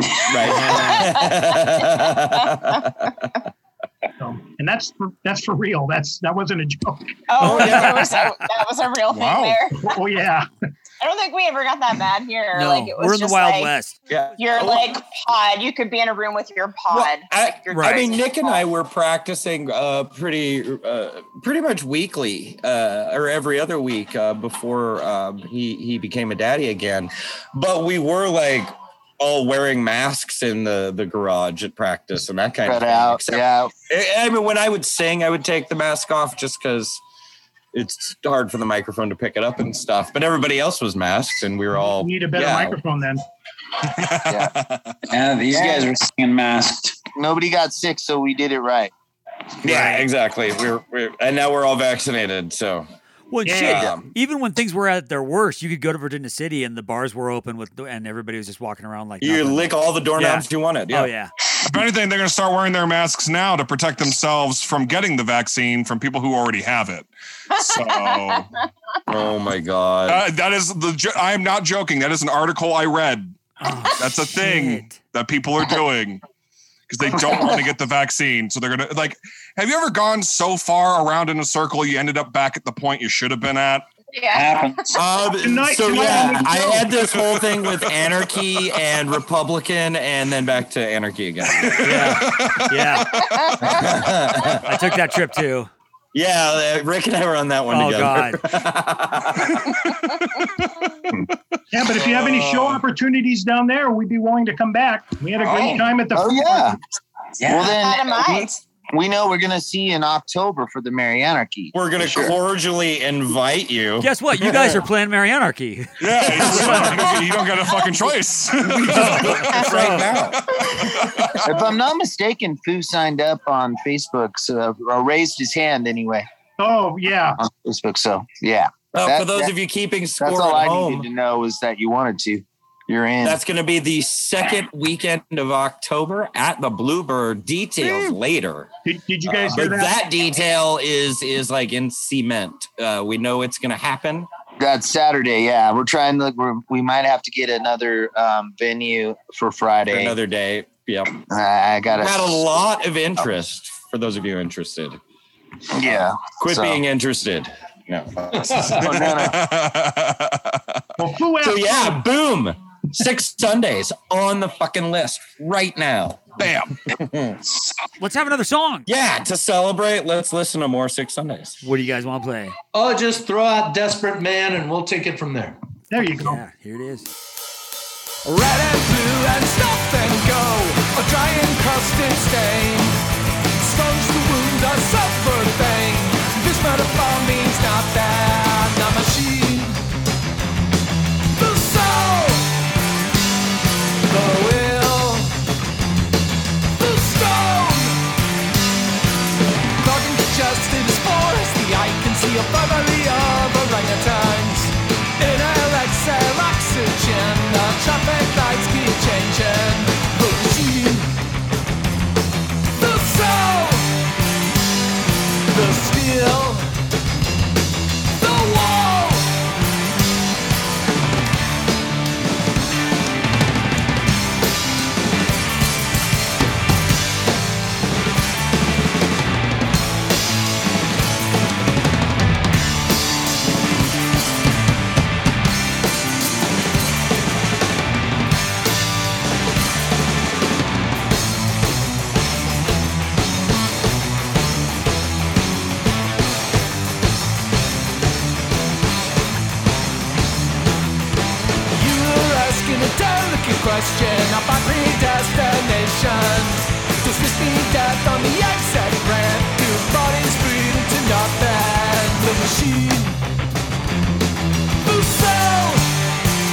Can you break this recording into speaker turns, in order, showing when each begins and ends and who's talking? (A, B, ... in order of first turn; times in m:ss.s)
0:00.3-0:03.1 A
0:00.5-0:02.8 B
0:04.2-0:07.1 C
0:07.3-0:09.9 B
0:07.4-0:08.2 A
0:09.1-0:09.6 D
0:09.8-0:10.5 C
0:11.0-0:13.7 B
0:12.5-0:14.0 E
0:14.1-0:15.0 A
0:14.4-0:18.6 B
0:16.9-0:37.0 A
0:17.7-0:18.1 E
0:32.6-0:33.7 F
0:37.7-0:42.8 A
0:41.8-0:43.2 C
0:45.1-0:47.0 G
0:45.5-0:45.9 F
0:47.2-0:48.9 F
0:49.6-0:52.9 A
0:49.6-0:50.0 E
0:53.3-1:01.3 E
0:53.4-0:53.9 C
0:53.6-0:54.1 A
0:59.2-1:01.1 A
1:01.6-1:08.5 D
1:07.6-1:08.4 B
1:09.1-1:10.2 A
1:10.1-1:13.4 D
1:13.6-1:15.0 E
1:14.0-1:16.2 D
1:16.9-1:23.9 D
1:24.1-1:24.6 B
1:24.3-1:25.0 G
1:25.0-1:32.1 A
1:25.4-1:26.9 C
1:26.9-1:28.6 D
1:31.5-1:32.9 D
1:31.8-1:33.2 E
1:33.2-1:33.9 B
1:33.6-1:34.6 A
1:34.6-1:35.7 E
1:36.1-1:39.6 A
1:37.7-1:38.4 E
1:41.7-1:46.8 C
1:42.0-1:42.8 D
1:46.1-1:46.8 F
1:47.4-1:47.7 G
1:47.4-1:48.4 F
1:47.8-1:48.6 B
1:48.9-1:52.4 F
1:51.7-1:54.8 A
1:54.0-1:56.9 E
1:56.0-2:01.4 D
1:56.4-1:57.0 A
1:58.9-1:59.3 E
1:58.9-2:00.4 A
1:59.6-2:00.0 B
2:01.4-2:06.3 F
2:06.6-2:07.4 C
2:07.4-2:09.5 F
2:08.9-2:11.1 A
2:10.2-2:13.4 F
2:13.2-2:18.7 A
2:18.9-2:19.9 C
2:19.3-2:24.3 A
2:24.6-2:30.2 F
2:29.9-2:31.2 A
2:31.3-2:32.4 F
2:32.0-2:35.0 A
2:35.7-2:36.8 F
2:35.8-2:39.1 A
2:38.4-2:39.0 H
2:38.8-2:39.4 F
2:39.1-2:40.6 D
2:41.0-2:42.0 C
2:41.4-2:46.4 A
2:46.4-2:46.8 D
2:47.0-2:47.4 A
2:48.0-2:48.9 E
2:48.9-2:51.6 A
2:51.6-2:52.6 E
2:52.7-2:55.6 H
2:55.9-2:56.4 C
2:56.0-2:57.1 E
2:58.3-3:02.9 I
3:03.6-3:09.7 I
3:11.4-3:12.4 I
3:14.1-3:15.2 I
3:16.8-3:17.8 I
3:19.8-3:24.7 I
3:25.2-3:31.0 I
3:32.8-3:33.8 I
3:35.6-3:36.6 I
3:38.2-3:39.2 I